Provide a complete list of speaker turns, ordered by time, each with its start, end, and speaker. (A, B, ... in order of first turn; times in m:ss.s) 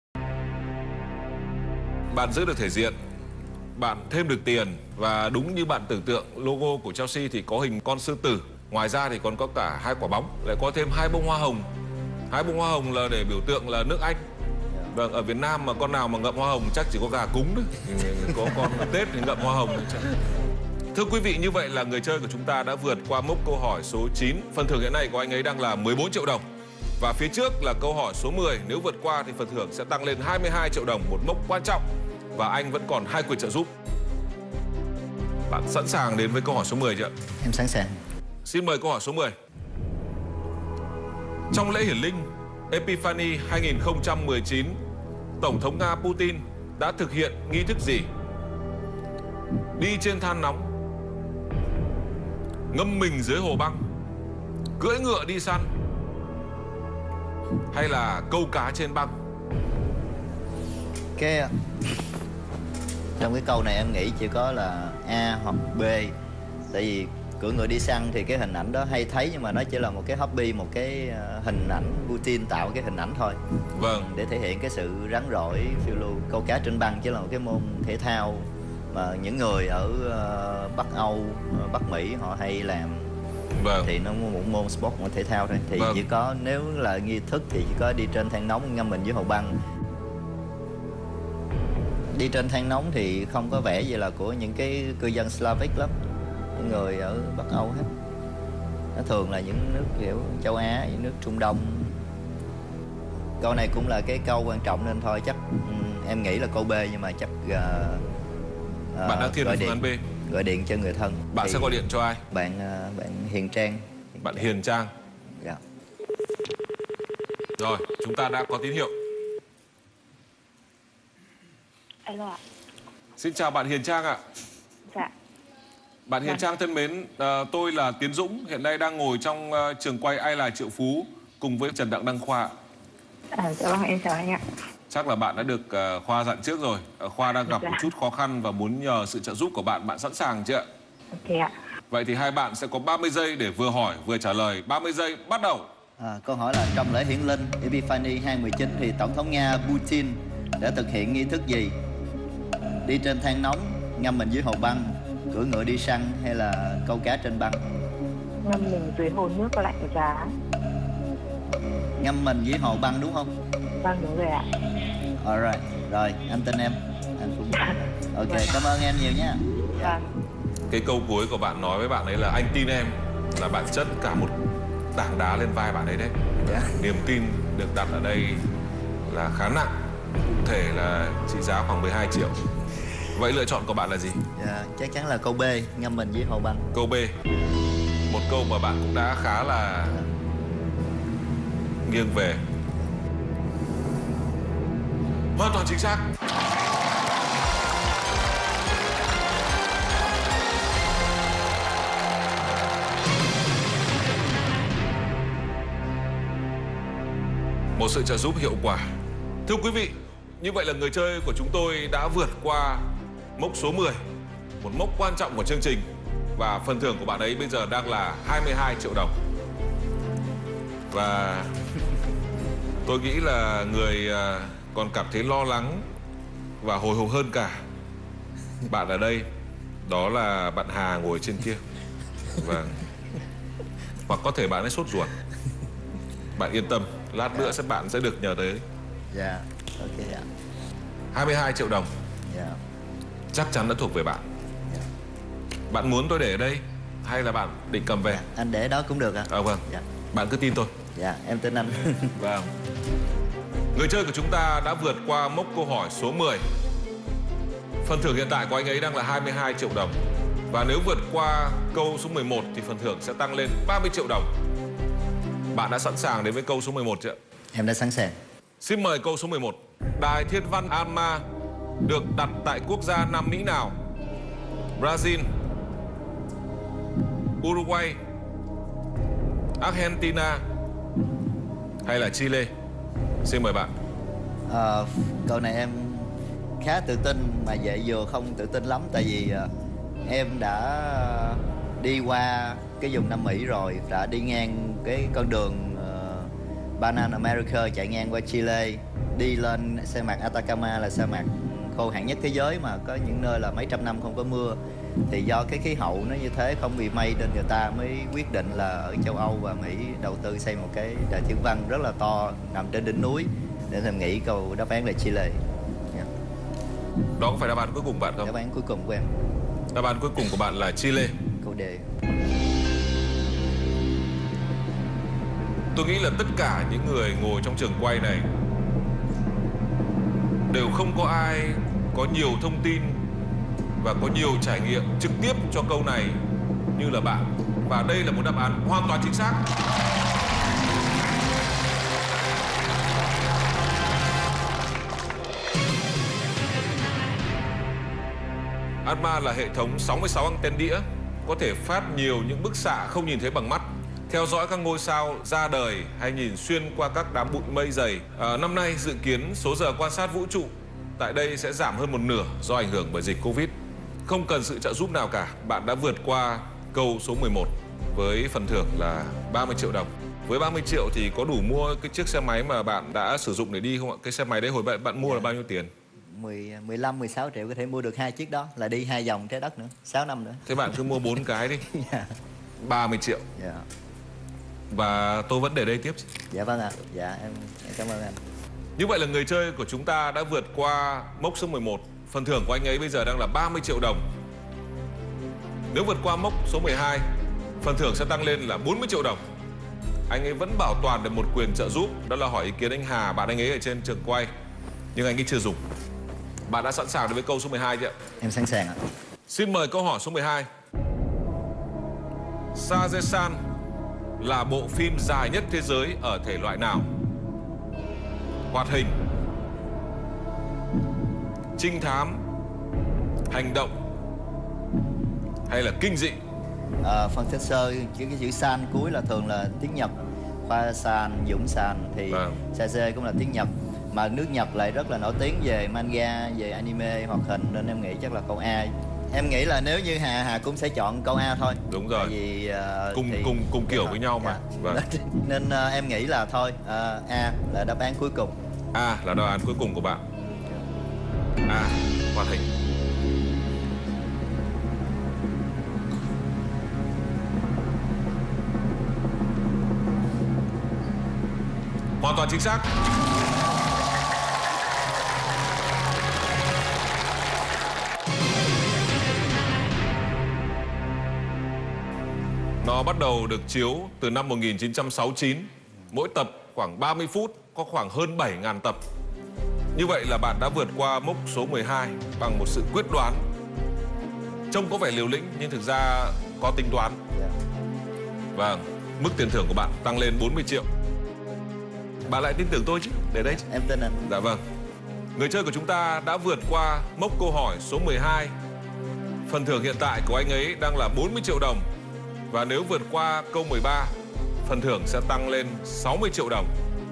0:02.1-0:02.9 A
0:03.7-0:11.7 A
0:12.3-0:14.2 A
0:14.9-0:20.1 A
0:20.9-0:26.4 A
0:27.0-0:33.7 A
0:35.5-0:37.1 A
0:37.4-0:38.0 B
0:38.4-0:39.3 A
0:41.5-0:44.8 A
0:45.4-0:48.1 A
0:49.8-0:50.7 A
0:52.7-0:53.8 A
0:54.8-0:55.7 A
0:57.7-0:59.1 A
1:01.2-1:01.6 B
1:03.2-1:06.1 B
1:06.7-1:23.1 B
1:13.7-1:14.1 A
1:23.5-1:23.9 A
1:23.8-1:29.6 B
1:25.8-1:26.0 A
1:32.1-1:36.0 B
1:36.5-1:37.9 B
1:38.9-1:42.0 B
1:43.4-1:48.0 B
1:48.9-1:51.8 B
1:49.0-1:50.0 A
1:51.3-1:52.2 A
1:52.3-1:54.5 B
1:54.2-1:54.9 A
1:57.6-1:58.9 A
2:02.0-2:02.4 C
2:03.2-2:04.2 A
2:06.1-2:12.5 A
2:13.3-2:14.4 C
2:14.9-2:20.6 A
2:17.5-2:17.8 C
2:21.1-2:21.5 C
2:21.9-2:25.7 A
2:26.0-2:31.8 B
2:32.8-2:37.6 B
2:38.4-2:40.3 C
2:42.0-2:43.3 B
2:43.8-2:44.5 C
2:45.2-2:50.0 B
2:49.8-2:50.0 C
2:50.7-2:54.3 A
2:54.9-2:58.4 A
2:56.4-2:56.8 B
2:59.0-3:02.4 A
3:03.1-3:04.2 A
3:04.3-3:06.7 B
3:06.7-3:07.2 A
3:07.3-3:07.6 B
3:08.1-3:10.0 A
3:11.8-3:12.4 A
3:15.4-3:16.1 A
3:27.8-3:28.8 A
3:29.4-3:32.8 A
3:33.4-3:34.0 A
3:34.6-3:39.1 A
3:40.9-3:41.5 A
3:42.8-3:45.8 A
3:46.6-3:47.6 A
3:48.7-3:49.3 A
3:49.8-3:51.6 A
3:52.3-3:52.8 A
3:54.0-3:55.1 A
3:56.4-3:58.6 A
3:59.1-4:00.3 B
4:01.1-4:01.9 A
4:02.3-4:02.6 B
4:03.3-4:04.2 A
4:05.7-4:08.2 A
4:08.0-4:09.8 B
4:09.3-4:10.7 A
4:10.9-4:12.1 B
4:12.1-4:12.5 A
4:13.7-4:16.4 A
4:17.8-4:20.0 A
4:20.5-4:24.3 A
4:25.5-4:27.2 A
4:27.5-4:28.2 B
4:28.6-4:31.2 A
4:31.8-4:33.7 A
4:34.8-4:35.3 A
4:37.4-4:38.0 A
4:39.6-4:40.4 A
4:41.8-4:42.5 A
4:43.2-4:43.7 A
4:44.5-4:49.5 B
4:50.0-5:16.1 B
5:17.2-5:18.3 A
5:18.2-5:19.2 B
5:19.7-5:21.2 A
5:21.4-5:21.9 B
5:25.7-5:28.3 A
5:30.5-5:33.0 A
5:33.8-5:36.2 A
5:36.7-5:39.4 A
5:48.8-6:03.5 A
6:04.0-6:15.7 A
6:15.0-6:15.3 B
6:16.0-6:20.8 B
6:20.4-6:21.6 A
6:21.6-6:22.1 B
6:22.6-6:23.2 A
6:23.4-6:23.6 B
6:24.7-6:26.0 A
6:26.3-6:28.2 B
6:28.8-6:34.0 A
6:35.7-6:37.0 A
6:37.6-6:39.2 A
6:40.1-6:44.3 A
6:44.9-6:45.6 A
6:46.5-6:47.9 A
6:48.2-6:48.8 B
6:49.3-6:50.5 A
6:52.5-6:53.4 A
6:54.2-6:56.9 A
6:58.5-6:58.9 A
7:01.6-7:02.2 A
7:03.3-7:03.7 A
7:05.5-7:06.2 A
7:06.8-7:28.4 B
7:12.1-7:12.4 A
7:21.7-7:22.1 A
7:22.9-7:24.8 A
7:28.7-7:30.0 A
7:31.5-7:32.5 A
7:42.0-7:42.7 A
7:52.6-7:58.8 A
7:59.7-8:03.2 A
8:04.5-8:07.0 A
8:07.1-8:07.4 B
8:08.3-8:10.7 A
8:12.0-8:13.4 A
8:13.4-8:14.1 B
8:14.0-8:14.4 A
8:15.2-8:18.3 A
8:19.3-8:21.6 A
8:22.3-8:23.9 A
8:24.4-8:26.5 A